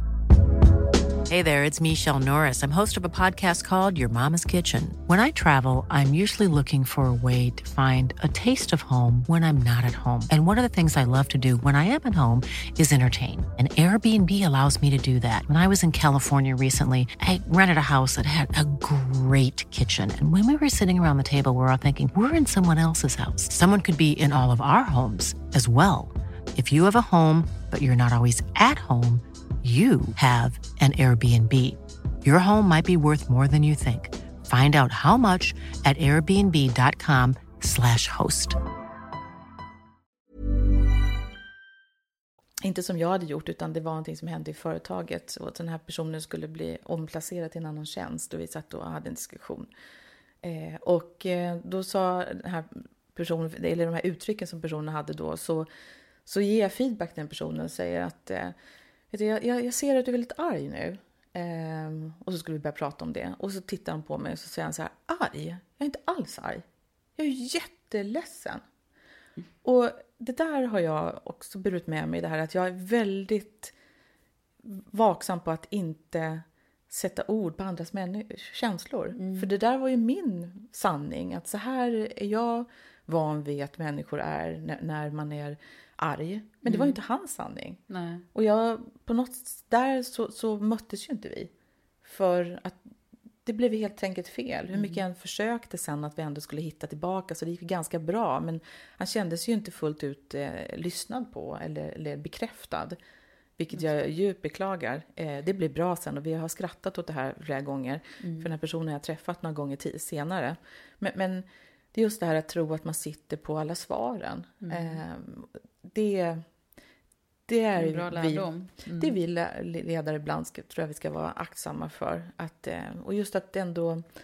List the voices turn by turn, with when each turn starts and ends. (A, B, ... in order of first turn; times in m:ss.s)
0:01.3-0:38.6 A
0:42.6-0:49.7 B
0:50.4-0:55.7 B
0:56.2-0:58.5 B
0:59.1-1:06.6 B
1:07.2-1:08.6 B
1:09.6-1:13.7 B
1:14.6-1:27.8 B
1:19.2-1:19.5 C
1:26.6-1:27.0 C
1:27.9-1:28.2 C
1:28.3-1:31.5 B
1:32.0-1:32.8 B
1:33.4-1:43.0 B
1:34.7-1:35.0 C
1:43.6-1:56.4 B
1:48.2-1:48.5 C
1:54.6-1:55.0 C
1:57.5-2:04.0 B
1:57.8-1:59.2 C